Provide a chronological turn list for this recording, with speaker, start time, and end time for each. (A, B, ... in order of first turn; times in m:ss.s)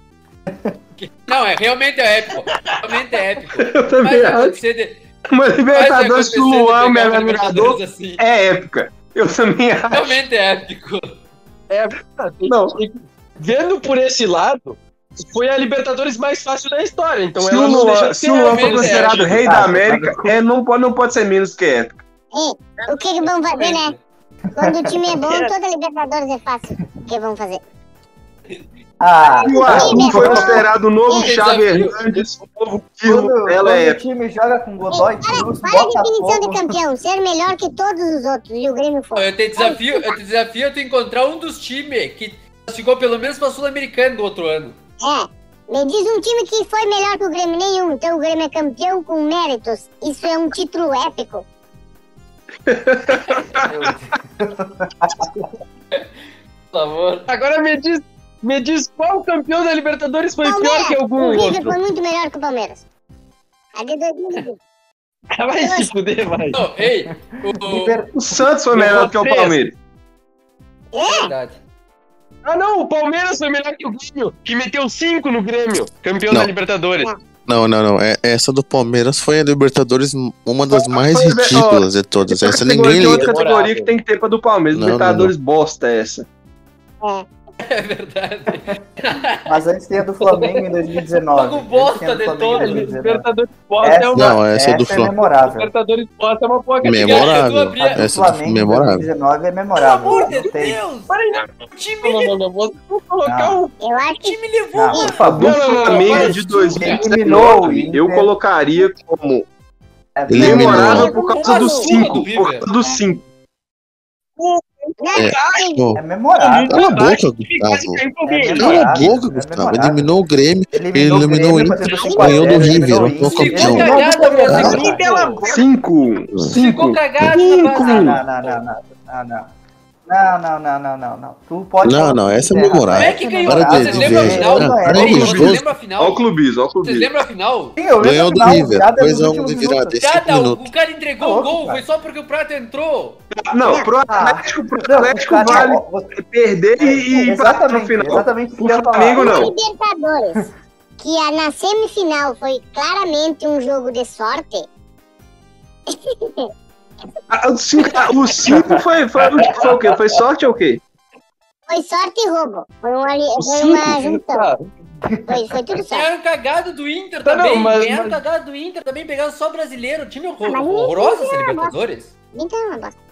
0:01.0-0:05.0 A
0:03.6-0:04.6 B
0:05.3-0:10.2 B
0:05.7-0:08.2 A
0:09.9-0:11.1 A
0:11.7-0:19.4 C
0:12.4-0:12.8 B
0:17.4-0:22.0 B
0:18.4-0:19.2 A
0:19.3-0:20.3 D
0:22.3-0:23.9 E
0:23.2-0:24.0 A
0:24.6-0:25.2 D
0:24.6-0:27.6 E
0:25.2-0:25.5 C
0:29.0-0:30.6 D
0:29.4-0:34.0 B
0:29.5-0:30.6 E
0:31.1-0:32.0 A
0:33.0-0:36.8 D
0:34.9-0:40.1 E
0:39.2-0:44.8 A
0:45.0-0:51.4 E
0:52.7-0:53.6 B
0:53.1-0:53.5 A
0:53.7-0:55.2 D
0:56.7-0:57.3 A
0:57.3-1:01.8 C
1:00.4-1:02.8 E
1:03.8-1:04.6 E
1:05.3-1:06.6 C
1:05.6-1:05.9 E
1:06.5-1:08.0 A
1:06.8-1:08.1 D
1:08.1-1:09.7 B
1:08.7-1:09.6 C
1:10.9-1:11.3 E
1:11.0-1:11.6 A
1:12.4-1:17.1 C
1:17.5-1:23.3 F
1:20.7-1:21.8 B
1:22.4-1:26.2 B
1:22.8-1:23.9 C
1:24.7-1:25.3 F
1:27.6-1:29.6 A
1:29.4-1:33.2 D
1:30.2-1:30.6 C
1:31.3-1:32.9 A
1:32.5-1:34.4 C
1:33.8-1:35.7 D
1:34.1-1:35.2 F
1:35.2-1:37.4 C
1:36.8-1:39.1 F
1:36.9-1:38.0 A
1:37.8-1:40.8 D
1:39.7-1:41.1 A
1:41.1-1:41.5 C
1:41.7-1:42.3 A
1:42.0-1:43.7 C
1:43.2-1:43.6 D
1:43.8-1:44.4 E
1:44.2-1:45.2 A
1:44.7-1:48.3 D
1:45.2-1:49.4 B
1:45.3-1:47.0 C
1:45.8-1:47.0 A
1:50.2-1:51.1 D
1:50.3-1:51.1 F
1:50.3-1:53.2 B
1:50.8-1:52.0 E
1:51.0-1:52.7 A
1:54.4-1:55.7 C
1:55.0-1:55.8 E
1:55.2-1:56.0 F
1:55.9-1:57.0 D
1:56.4-1:59.0 C
1:56.7-1:58.0 F
1:58.2-2:00.1 D
1:58.5-2:04.8 F
2:00.7-2:05.4 D
2:02.0-2:02.6 E
2:02.0-2:02.4 A
2:03.2-2:05.4 A
2:03.7-2:05.6 C
2:05.4-2:08.2 B
2:06.5-2:08.5 A
2:07.7-2:09.5 D
2:10.1-2:15.6 D
2:11.8-2:15.7 F
2:12.9-2:16.2 A
2:15.1-2:17.1 B
2:16.8-2:17.8 A
2:17.8-2:20.0 D
2:18.0-2:20.7 F
2:20.0-2:23.2 A
2:21.2-2:21.8 D
2:23.4-2:29.5 B
2:23.6-2:23.9 E
2:24.1-2:26.1 D
2:26.8-2:29.5 D
2:29.2-2:30.5 E
2:31.0-2:34.6 E
2:35.9-2:36.5 E
2:37.3-2:40.8 B
2:38.5-2:38.8 D
2:39.4-2:39.8 C
2:41.7-2:44.5 E
2:43.4-2:44.6 C
2:45.0-2:45.6 D
2:45.3-2:46.1 E
2:45.8-2:52.1 A
2:47.2-2:48.2 C
2:50.4-2:51.7 E
2:52.3-2:52.9 E